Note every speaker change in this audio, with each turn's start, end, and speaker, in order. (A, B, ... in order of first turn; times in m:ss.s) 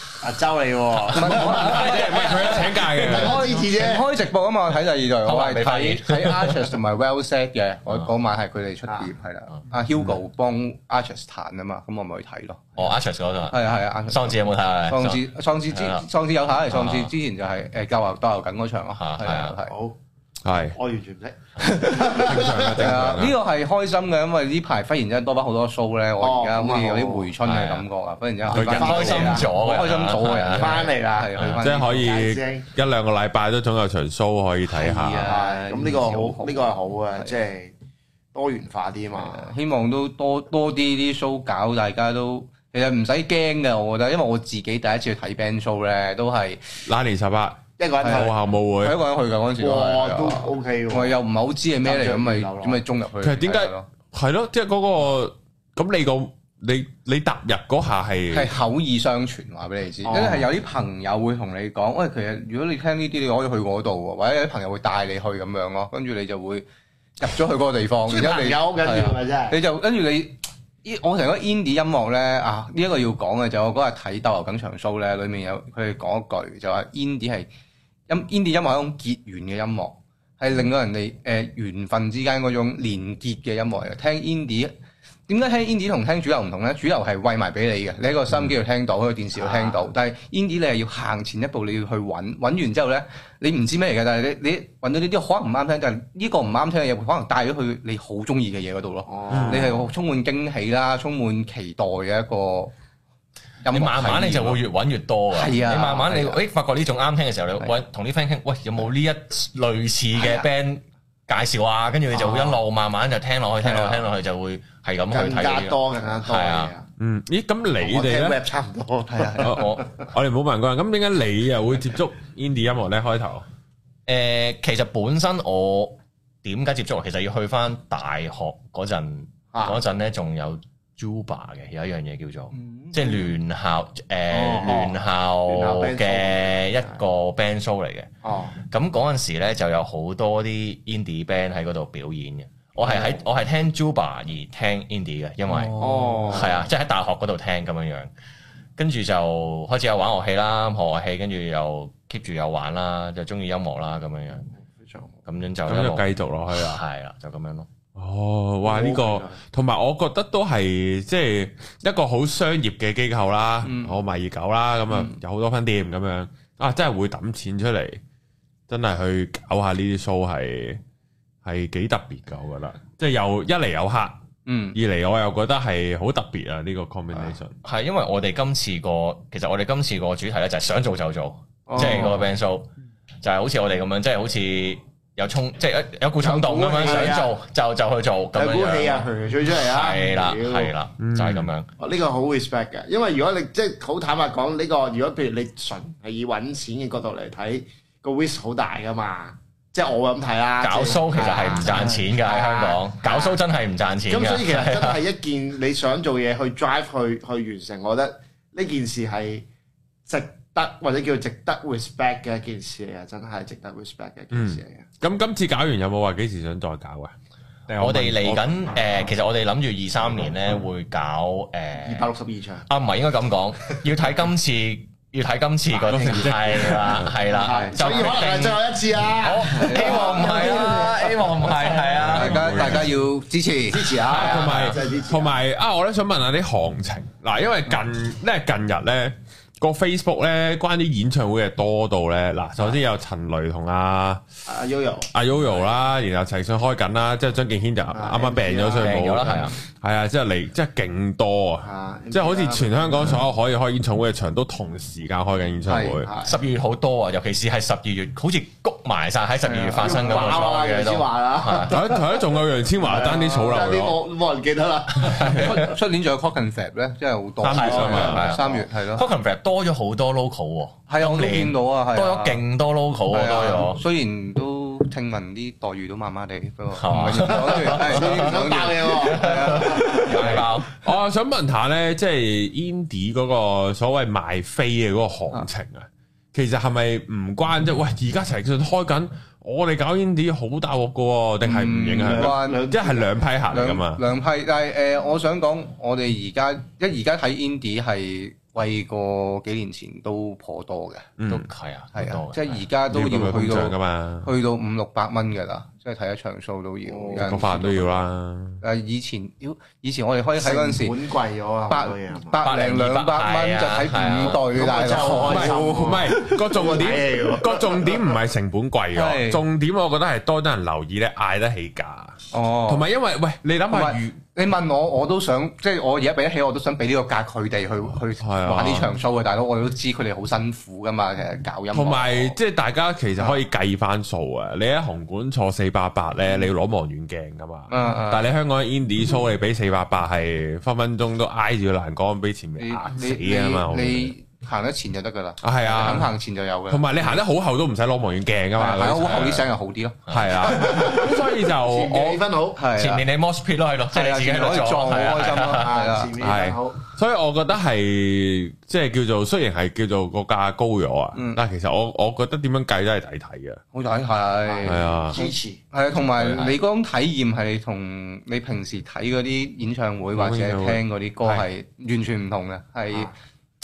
0:00.2-0:02.0 A
0:01.1-0:12.8 B
0:01.2-0:03.5 C
0:01.7-0:02.6 D
0:02.8-0:04.1 A
0:05.2-0:06.7 D
0:12.8-0:16.0 D
0:13.5-0:19.8 B
0:16.7-0:17.1 D
0:19.0-0:19.6 D
0:19.7-0:20.0 A
0:20.4-0:20.8 C
0:20.8-0:22.9 A
0:21.6-0:32.2 B
0:22.0-0:23.4 C
0:26.2-0:27.3 A
0:27.4-0:27.9 D
0:28.5-0:29.5 A
0:28.5-0:29.4 C
0:28.6-0:31.6 D
0:30.5-0:31.4 A
0:31.6-0:35.3 C
0:32.0-0:32.7 A
0:34.7-0:37.3 B
0:35.2-0:37.7 A
0:38.3-0:39.5 A
0:39.2-0:46.6 B
0:46.9-0:49.0 C
0:47.8-0:48.3 A
0:48.0-0:53.9 B
0:49.6-0:51.2 A
0:51.8-0:52.8 A
0:53.2-0:58.5 C
0:58.3-1:06.7 B
1:00.0-1:00.5 A
1:07.2-1:17.5 B
1:08.1-1:09.6 A
1:18.1-1:24.7 B
1:25.3-1:42.7 B
1:39.1-1:39.7 A
1:39.3-1:39.8 C
1:43.6-1:44.6 B
1:43.7-1:56.7 D
1:45.3-1:46.4 B
1:50.2-1:50.4 B
1:52.2-1:52.5 B
1:53.6-1:54.0 B
1:55.1-1:56.9 A
1:57.0-1:58.4 C
1:57.8-1:59.8 A
1:59.1-1:59.5 B
1:59.4-2:03.4 C
1:59.5-1:59.8 D
2:04.1-2:18.1 D
2:09.5-2:09.8 A
2:12.5-2:13.2 B
2:14.3-2:14.9 A
2:14.5-2:14.8 B
2:15.5-2:17.0 A
2:18.2-2:18.6 A
2:18.7-2:28.1 D
2:22.8-2:23.2 A
2:25.5-2:26.6 B
2:25.8-2:26.6 A
2:28.8-2:34.5 D
2:34.7-2:35.1 A
2:35.3-2:37.7 D
2:35.7-2:36.8 C
2:38.0-2:48.0 C
2:38.6-2:39.4 A
2:43.6-2:44.0 B
2:44.9-2:45.2 B
2:48.7-2:50.8 C
2:51.4-2:54.2 C
2:54.5-2:54.8 B
2:54.8-2:57.5 C
2:57.6-3:02.7 D
3:01.7-3:02.3 A
3:03.2-3:11.7 D
3:06.2-3:07.3 A
3:08.4-3:10.7 A
3:11.0-3:11.5 C
3:11.8-3:23.4 A
3:20.6-3:25.0 D
3:24.1-3:29.5 A
3:30.1-3:34.9 A
3:34.3-3:37.1 C
3:37.7-3:38.6 C
3:37.8-3:42.1 D
3:41.8-3:42.7 A
3:42.7-3:52.8 D
3:45.7-3:47.1 C
3:46.7-3:51.0 A
3:47.4-3:47.9 B
3:49.5-3:51.0 B
3:51.6-3:54.2 B
3:51.9-3:52.9 C
3:53.7-3:55.4 A
3:54.1-4:04.2 C
3:54.1-3:54.8 D
4:04.5-4:05.8 A
4:05.1-4:16.1 C
4:07.9-4:09.5 A
4:08.8-4:09.6 D
4:11.6-4:13.2 A
4:15.7-4:16.0 B
4:16.0-4:16.4 A
4:16.2-4:21.8 D
4:19.5-4:25.7 A
4:21.7-4:24.0 C
4:25.1-4:29.1 B
4:25.1-4:25.5 D
4:27.4-4:28.2 C
4:27.5-4:33.8 D
4:27.7-4:28.7 A
4:30.9-4:32.4 B
4:33.1-4:40.5 B
4:36.7-4:40.7 D
4:37.2-4:40.1 A
4:40.3-4:54.0 C
4:51.4-4:52.7 B
4:52.0-4:53.2 A
4:53.5-5:01.1 B
5:01.2-5:01.5 C
5:01.3-5:02.7 D
5:01.9-5:08.0 B
5:02.9-5:04.3 C
5:06.9-5:07.4 A
5:07.2-5:08.6 C
5:08.6-5:11.0 B
5:10.4-5:12.4 A
5:11.7-5:16.3 B
5:12.4-5:14.5 D
5:14.4-5:18.1 A
5:15.2-5:24.2 C
5:18.9-5:19.4 B
5:22.3-5:22.9 B
5:23.7-5:32.4 B
5:28.2-5:29.0 C
5:31.7-5:44.1 C
5:37.7-5:38.3 B
5:42.6-5:47.2 B
5:45.4-5:46.2 C
5:46.7-5:49.5 C
5:48.6-5:50.1 B
5:49.1-5:49.4 D
5:50.1-5:50.5 D
5:50.1-5:52.2 C
5:50.4-5:52.6 A
5:52.6-5:53.0 B
5:52.8-5:55.7 D
5:53.9-5:56.2 B
5:55.5-5:56.8 A
5:56.2-6:03.6 C
6:01.1-6:01.4 B
6:03.7-6:13.1 B
6:04.4-6:05.6 A
6:04.7-6:05.2 C
6:06.1-6:06.5 C
6:10.1-6:11.5 C